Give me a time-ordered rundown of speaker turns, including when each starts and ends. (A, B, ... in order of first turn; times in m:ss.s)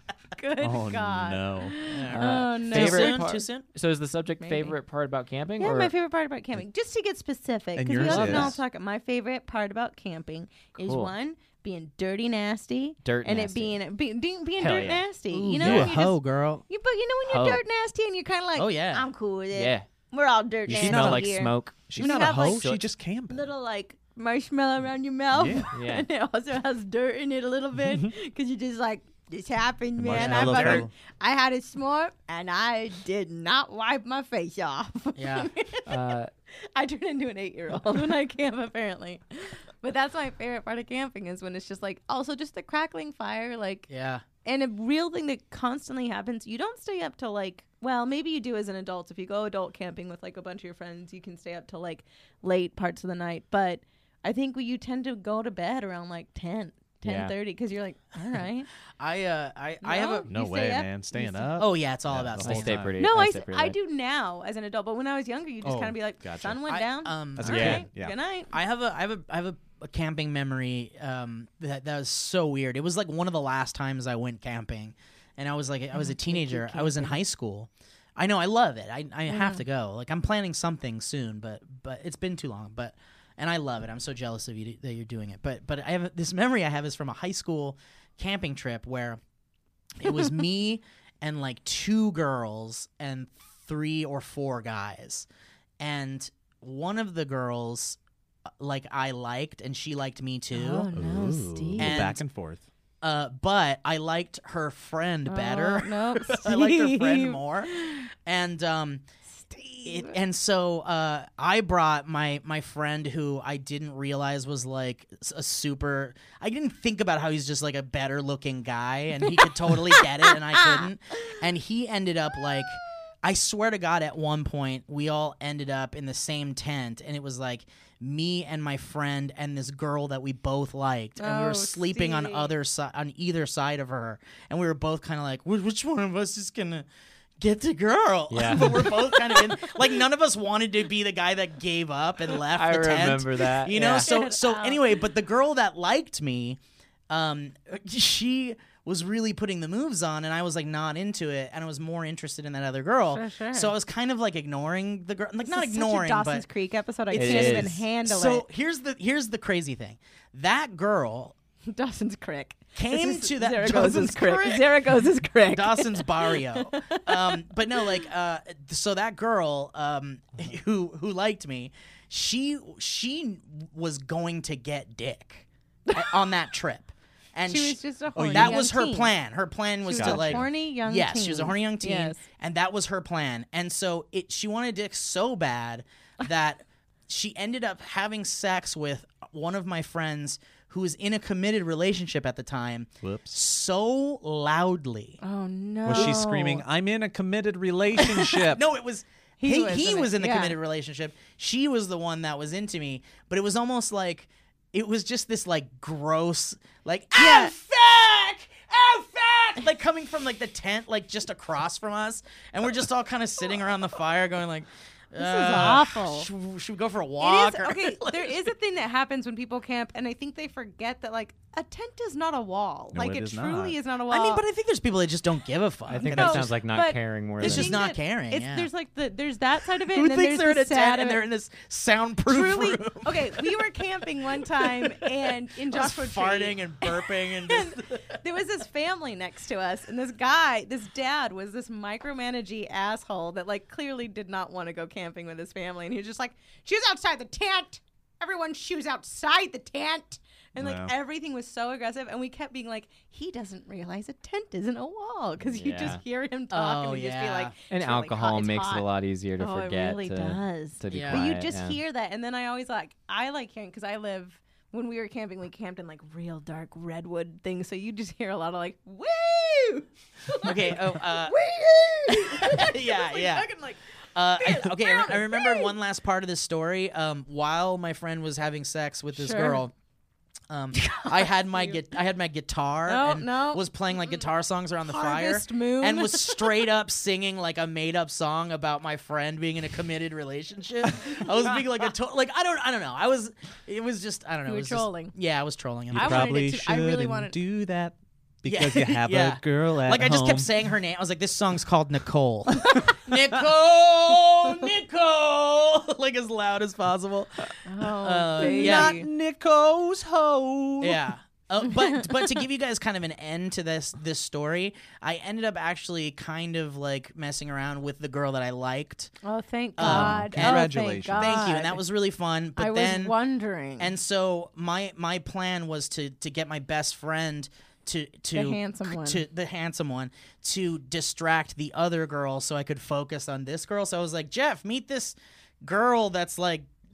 0:00.4-0:03.2 A
0:00.6-0:01.8 B
0:01.8-0:03.6 C
0:02.1-0:05.9 D
0:04.4-0:04.7 A
0:05.6-0:22.8 A
0:07.8-0:08.6 B
0:08.0-0:08.5 D
0:10.8-0:11.1 D
0:13.0-0:13.8 D
0:14.6-0:15.0 D
0:15.3-0:16.6 C
0:15.6-0:16.0 B
0:17.2-0:17.6 D
0:18.6-0:19.0 C
0:19.5-0:19.8 D
0:20.7-0:22.9 D
0:20.7-0:21.3 B
0:21.9-0:23.5 B
0:23.3-0:36.2 A
0:25.3-0:25.7 B
0:25.7-0:26.1 D
0:30.0-0:30.9 B
0:30.2-0:30.9 C
0:35.2-0:35.5 C
0:35.9-0:36.3 D
0:36.7-0:43.9 A
0:43.9-0:44.2 C
0:44.4-0:58.7 A
0:57.0-0:57.3 D
0:59.0-1:00.3 C
0:59.8-1:01.6 A
1:00.3-1:03.0 B
1:01.6-1:02.8 C
1:02.4-1:03.8 D
1:03.0-1:08.5 A
1:05.6-1:06.6 B
1:06.7-1:07.9 C
1:07.4-1:08.1 B
1:08.5-1:29.2 C
1:16.0-1:17.2 A
1:19.3-1:19.6 A
1:30.0-1:35.3 C
1:35.8-1:38.0 C
1:38.6-1:40.9 C
1:40.5-1:42.1 A
1:40.9-1:42.6 B
1:41.8-1:42.2 C
1:43.0-1:49.0 C
1:45.2-1:48.1 A
1:49.5-1:50.1 A
1:49.8-2:16.8 C
1:59.2-2:01.3 A
2:11.2-2:12.5 A
2:17.4-2:26.6 C
2:18.3-2:18.8 D
2:18.6-2:19.6 A
2:22.5-2:24.1 D
2:24.0-2:24.8 A
2:27.1-2:36.4 C
2:33.1-2:33.7 A
2:35.4-2:38.4 A
2:37.1-2:41.3 C
2:37.1-2:37.8 D
2:41.7-2:48.1 A
2:42.8-2:44.7 C
2:45.5-3:15.2 C
2:55.9-2:56.1 A
2:57.5-2:59.1 A
2:58.2-2:58.6 B
2:59.8-3:02.2 A
3:00.0-3:00.4 B
3:13.0-3:13.4 B
3:15.2-3:16.6 A
3:15.8-3:18.6 B
3:18.0-3:18.4 A
3:18.4-3:38.5 C
3:19.4-3:20.6 A
3:27.2-3:27.5 A
3:35.2-3:36.3 A
3:37.2-3:44.4 A
3:42.9-3:43.8 B
3:44.1-3:46.6 C
3:45.9-3:47.8 D
3:46.0-3:51.2 A
3:47.4-3:48.7 C
3:49.8-3:53.7 C
3:52.2-4:18.8 A
3:54.4-3:55.2 C
3:55.7-3:58.2 C
4:10.6-4:10.9 B
4:15.4-4:16.0 D
4:16.5-4:17.5 C
4:17.7-4:21.8 D
4:19.4-4:33.8 A
4:20.9-4:21.3 C
4:30.4-4:31.4 C
4:32.1-4:33.5 C
4:34.1-4:39.7 C
4:34.4-4:35.8 A
4:39.2-4:39.6 A
4:40.5-4:56.5 C
4:40.7-4:41.8 A
4:42.8-4:43.6 A
4:44.8-4:46.7 A
4:54.4-4:55.1 A
4:55.9-5:00.5 B
4:55.9-4:57.4 A
4:58.4-5:09.0 C
5:07.6-5:09.1 A
5:08.3-5:11.0 B
5:10.8-5:19.1 C
5:19.2-5:21.8 A
5:19.8-5:23.1 C
5:19.8-5:21.5 B
5:22.6-5:23.9 A
5:23.8-5:36.7 C
5:28.3-5:29.2 A